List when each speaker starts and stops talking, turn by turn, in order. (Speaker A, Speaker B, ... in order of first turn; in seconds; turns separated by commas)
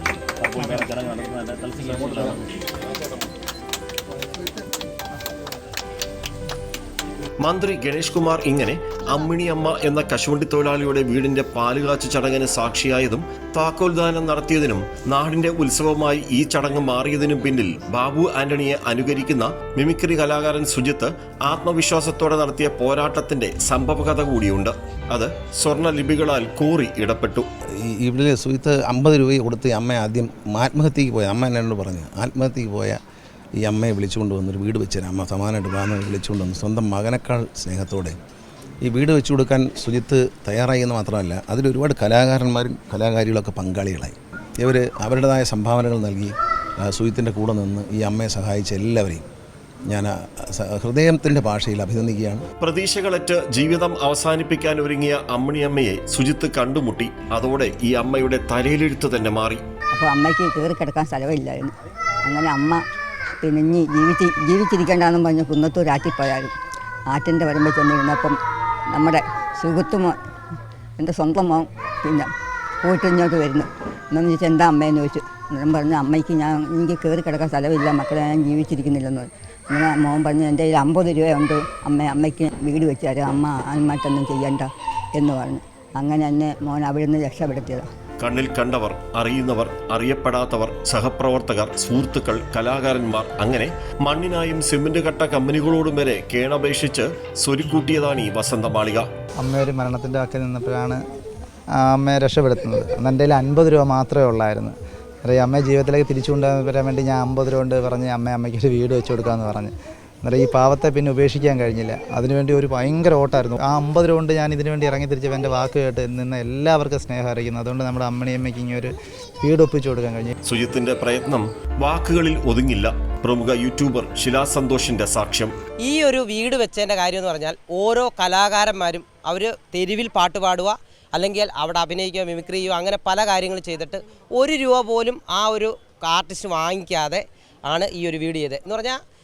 Speaker A: 0.4-2.5, Speaker B: 7.4-27.5, Speaker C: 27.8-33.0, Speaker C: 33.6-38.2, Speaker C: 38.8-49.2, Speaker C: 49.9-52.4, Speaker B: 52.6-59.6, Speaker D: 59.9-62.8, Speaker D: 63.4-66.5, Speaker D: 67.1-68.4, Speaker D: 68.9-70.2, Speaker D: 71.0-72.3, Speaker D: 72.8-87.9, Speaker B: 88.2-99.1, Speaker E: 99.4-101.0, Speaker E: 101.8-120.3, Speaker B: 120.5-125.5, Speaker F: 125.9-139.0, Speaker A: 126.0-130.7, Speaker A: 132.8-133.1, Speaker A: 133.6-133.9, Speaker A: 134.5-135.7